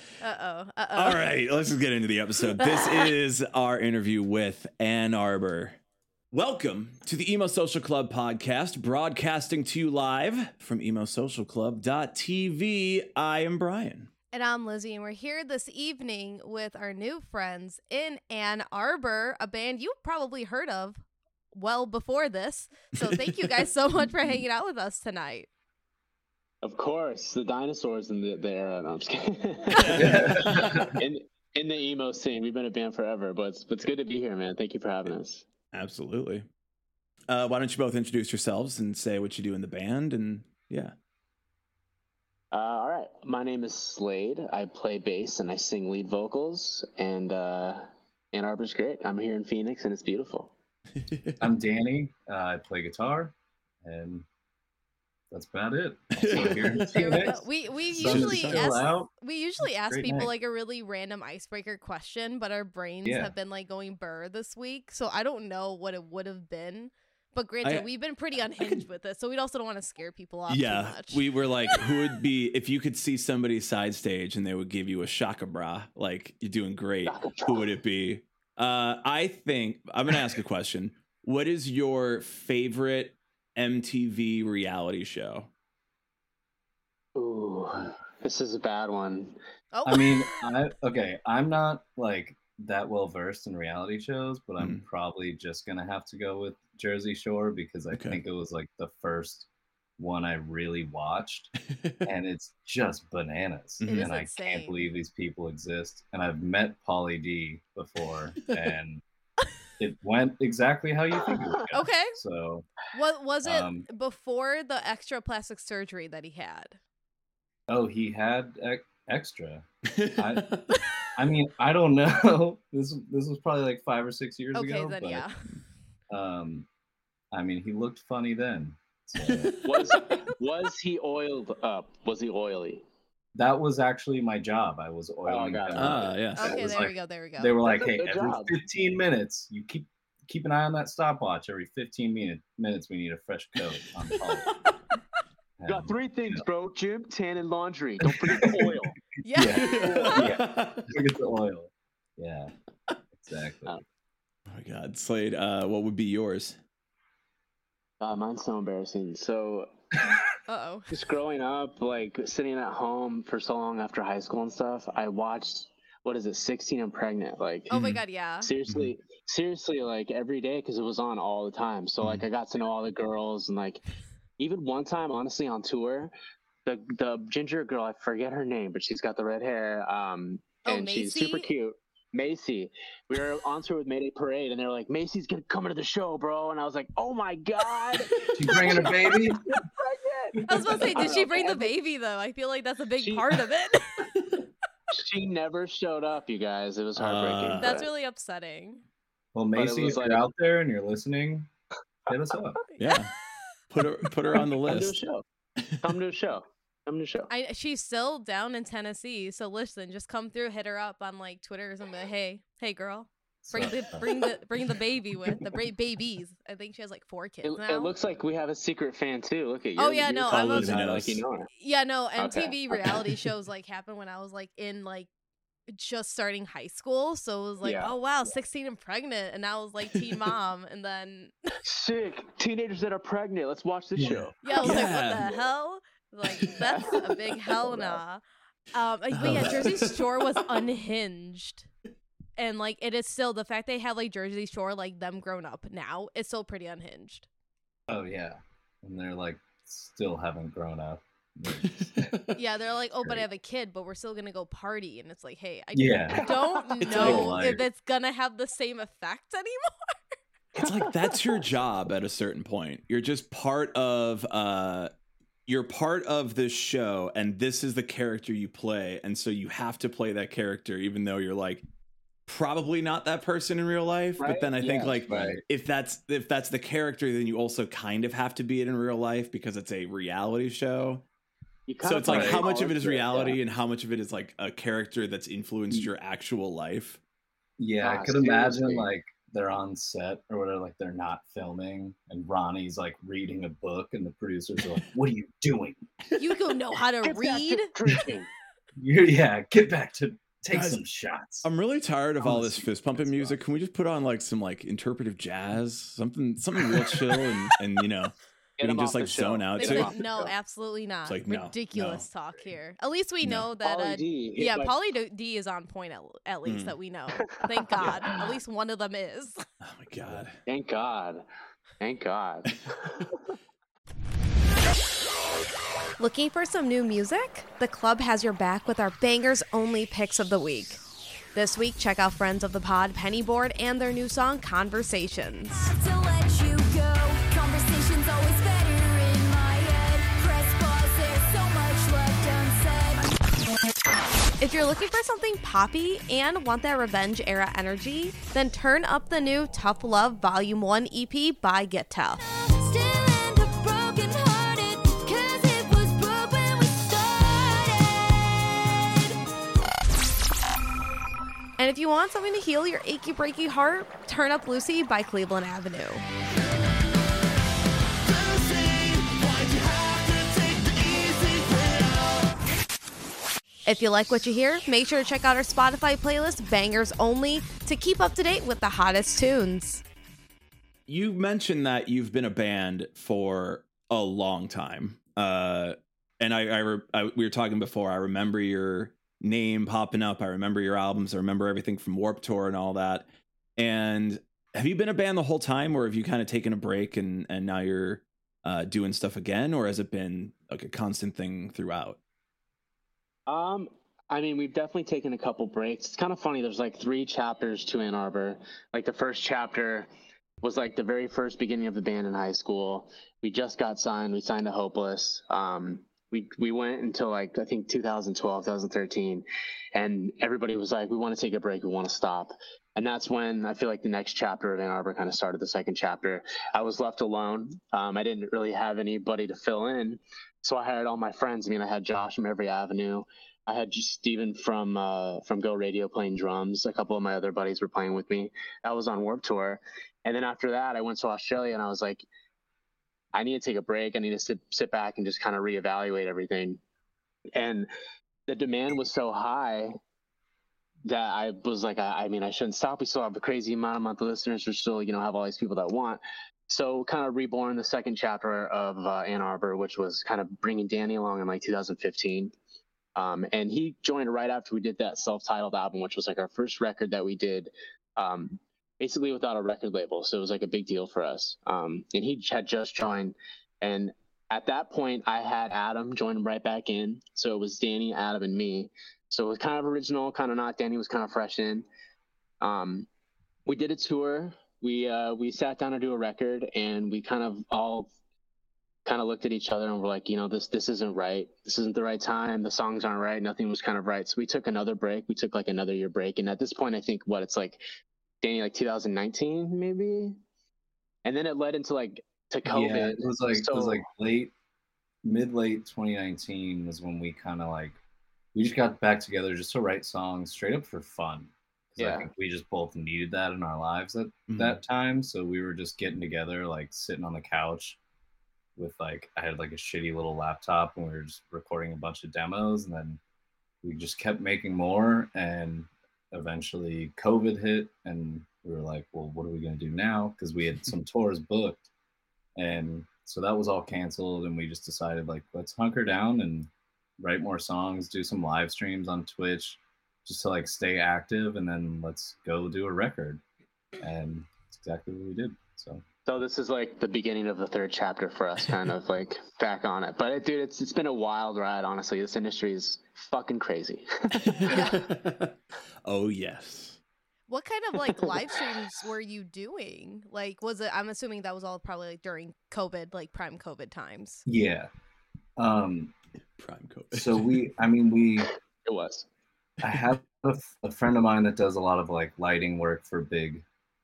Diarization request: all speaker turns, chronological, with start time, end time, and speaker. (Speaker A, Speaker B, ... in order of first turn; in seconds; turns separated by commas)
Speaker A: 0.2-1.2, Speaker B: 0.9-5.8, Speaker A: 2.6-3.1, Speaker B: 6.3-14.1, Speaker A: 14.3-21.0, Speaker A: 21.5-25.5, Speaker B: 23.0-23.3, Speaker C: 26.6-35.4, Speaker B: 29.7-31.0, Speaker D: 29.9-31.0, Speaker B: 35.7-36.5, Speaker B: 37.3-40.9, Speaker C: 42.5-50.5, Speaker B: 51.0-51.5, Speaker D: 51.4-54.2, Speaker D: 55.3-59.1, Speaker B: 56.1-57.3, Speaker A: 56.8-71.8, Speaker B: 57.9-58.8, Speaker D: 59.9-60.3, Speaker D: 63.0-63.3, Speaker B: 70.5-85.5, Speaker C: 77.0-77.7, Speaker C: 87.2-89.3, Speaker A: 89.7-90.5, Speaker D: 89.8-109.0, Speaker B: 97.9-98.2, Speaker B: 101.7-102.1, Speaker B: 103.8-104.1, Speaker A: 103.8-104.7, Speaker D: 109.8-112.7, Speaker C: 111.3-111.6, Speaker A: 111.7-112.2, Speaker A: 112.9-116.8, Speaker D: 113.4-113.9, Speaker D: 117.7-120.5, Speaker B: 119.8-120.8, Speaker D: 121.1-125.2, Speaker A: 124.5-125.4, Speaker D: 126.1-126.7, Speaker D: 127.3-129.5, Speaker B: 129.2-130.0, Speaker C: 129.6-132.8, Speaker D: 133.3-144.5, Speaker C: 135.3-136.1, Speaker B: 135.7-136.6, Speaker A: 136.3-137.5, Speaker C: 137.7-138.5, Speaker D: 145.6-146.4, Speaker C: 145.7-148.9, Speaker D: 148.2-148.7, Speaker A: 149.2-150.2, Speaker D: 149.3-152.5, Speaker B: 149.5-150.9, Speaker D: 153.2-153.7, Speaker B: 154.5-156.6, Speaker C: 158.0-159.7, Speaker A: 160.5-160.9, Speaker C: 160.9-167.7, Speaker A: 167.7-168.5, Speaker B: 167.7-168.0, Speaker C: 168.4-173.8, Speaker C: 174.4-176.1, Speaker C: 176.6-191.7, Speaker A: 180.6-181.5, Speaker D: 188.3-189.4, Speaker A: 190.5-194.1, Speaker D: 190.5-191.1, Speaker C: 193.0-193.4, Speaker C: 194.9-197.9, Speaker B: 196.9-197.8, Speaker A: 197.6-198.8, Speaker D: 199.3-201.5, Speaker C: 199.5-200.2, Speaker D: 202.1-202.6, Speaker B: 202.8-203.1, Speaker B: 203.7-205.0, Speaker C: 204.3-205.2, Speaker C: 205.8-207.3, Speaker A: 207.3-217.9, Speaker D: 213.4-214.2, Speaker C: 217.4-221.5, Speaker A: 219.8-220.7, Speaker B: 220.3-221.2, Speaker A: 221.5-225.1, Speaker C: 222.2-223.0, Speaker A: 225.7-231.3, Speaker C: 227.6-227.9, Speaker C: 231.6-234.8, Speaker D: 234.0-234.2, Speaker A: 234.4-241.7, Speaker B: 234.6-235.3, Speaker C: 236.4-237.1, Speaker C: 237.6-237.9, Speaker B: 239.1-240.2, Speaker D: 239.2-239.6, Speaker A: 242.4-247.3, Speaker D: 247.9-252.2, Speaker B: 251.6-252.3, Speaker A: 252.3-259.9, Speaker D: 255.7-256.3, Speaker C: 256.2-257.3, Speaker D: 256.8-257.6, Speaker C: 260.6-261.4, Speaker B: 260.6-264.9, Speaker B: 265.5-271.6, Speaker B: 272.3-281.0, Speaker C: 274.2-275.3, Speaker D: 275.1-275.4, Speaker C: 281.7-283.4, Speaker B: 281.8-287.0, Speaker D: 282.1-282.4, Speaker D: 287.6-295.8, Speaker C: 287.8-288.9, Speaker A: 296.2-297.7, Speaker C: 297.0-298.3, Speaker D: 298.8-301.5, Speaker B: 300.5-300.8, Speaker B: 301.4-309.9, Speaker D: 302.2-303.4, Speaker C: 308.6-310.3, Speaker A: 309.6-319.4, Speaker B: 311.1-312.0, Speaker B: 313.2-313.5, Speaker C: 313.6-314.8, Speaker B: 316.4-316.8, Speaker C: 317.8-318.1, Speaker B: 319.6-320.4, Speaker C: 320.4-321.2, Speaker C: 321.8-323.2, Speaker A: 326.0-330.8, Speaker A: 331.3-335.7, Speaker E: 335.5-343.2, Speaker A: 344.4-352.2, Speaker E: 352.6-358.5, Speaker A: 361.6-366.0, Speaker E: 368.2-371.2, Speaker A: 373.6-379.8, Speaker B: 380.9-393.1, Speaker B: 393.6-402.0, Speaker C: 403.3-409.9, Speaker C: 410.4-442.1, Speaker C: 443.1-446.6, Speaker C: 447.4-447.7, Speaker C: 448.3-449.7, Speaker C: 450.9-462.3, Speaker C: 462.9-481.6, Speaker C: 482.4-482.9, Speaker C: 483.4-487.9, Speaker C: 488.9-497.6, Speaker C: 498.2-500.2, Speaker C: 501.0-503.8, Speaker D: 502.5-504.3, Speaker D: 505.0-507.8, Speaker D: 508.3-517.8, Speaker C: 511.8-512.1, Speaker B: 514.3-514.6, Speaker D: 518.5-523.0, Speaker D: 523.6-531.6, Speaker D: 532.4-543.2, Speaker D: 543.8-545.8, Speaker C: 546.0-554.7, Speaker B: 554.2-555.3, Speaker A: 554.5-554.8, Speaker B: 555.8-556.8, Speaker A: 557.3-564.2, Speaker D: 564.2-564.7, Speaker D: 565.4-565.9, Speaker B: 566.4-567.5, Speaker D: 566.9-568.3, Speaker C: 568.6-569.0, Speaker D: 569.6-573.4